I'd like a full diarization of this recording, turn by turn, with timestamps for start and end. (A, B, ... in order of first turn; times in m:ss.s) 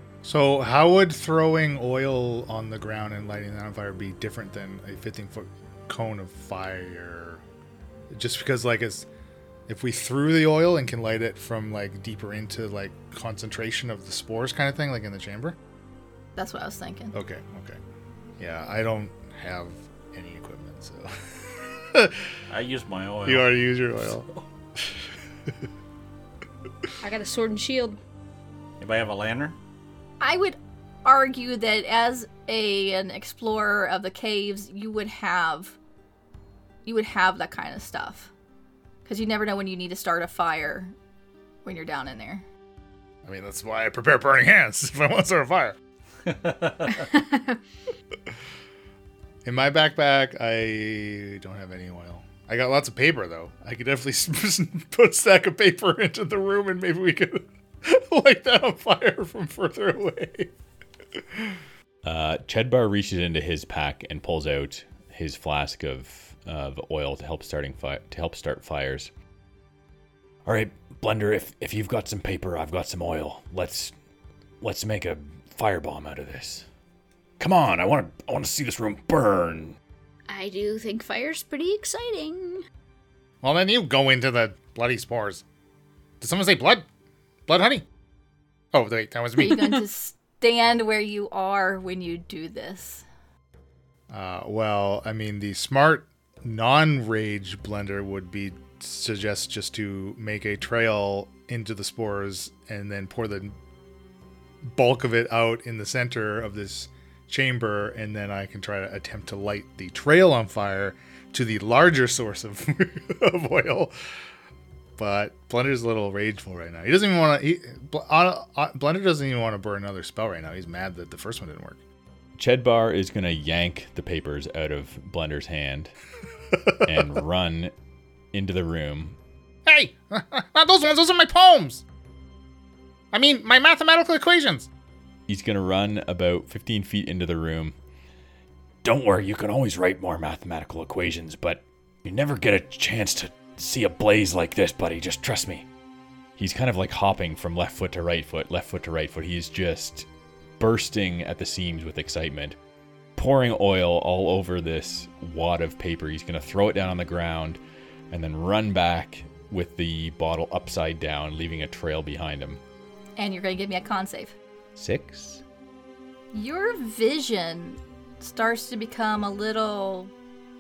0:00.2-0:07.4 A
0:08.1-0:09.1 A
0:09.7-0:15.6 A
0:16.4-0:17.1 B
0:17.1-0:17.8 A
0:18.4-0:22.3 A
0:22.5-0:23.5 C
0:23.2-0:24.3 A
0:24.0-0:24.4 C
0:27.0-0:28.0 D
0:28.8-0:29.6 C
0:30.2-0:35.8 B
0:36.8-0:38.3 B
0:39.0-0:40.9 B
0:41.6-0:42.4 B
0:43.2-0:45.8 A
0:46.3-0:47.0 C
0:46.9-0:47.6 D
0:49.4-1:00.5 A
1:01.1-1:01.6 A
1:02.0-1:09.1 E
1:10.5-1:13.9 E
1:14.6-1:16.7 E
1:17.4-1:19.8 E
1:20.3-1:22.6 D
1:23.4-1:25.4 A
1:26.2-1:26.9 A
1:27.5-1:27.9 A
1:28.7-1:29.6 A
1:29.4-1:33.1 B
1:34.1-1:43.6 A
1:44.6-1:53.9 A
1:55.0-2:01.8 A
2:02.4-2:05.9 E
2:06.7-2:07.1 A
2:06.8-2:07.7 E
2:08.3-2:09.2 E
2:09.7-2:11.8 A
2:13.1-2:14.7 A
2:15.3-2:17.8 E
2:18.8-2:25.7 E
2:26.4-2:30.1 E
2:30.6-2:32.6 E
2:33.2-2:37.6 E
2:38.1-2:42.6 E
2:43.2-2:44.4 B
2:44.8-2:45.4 E
2:46.3-2:50.1 B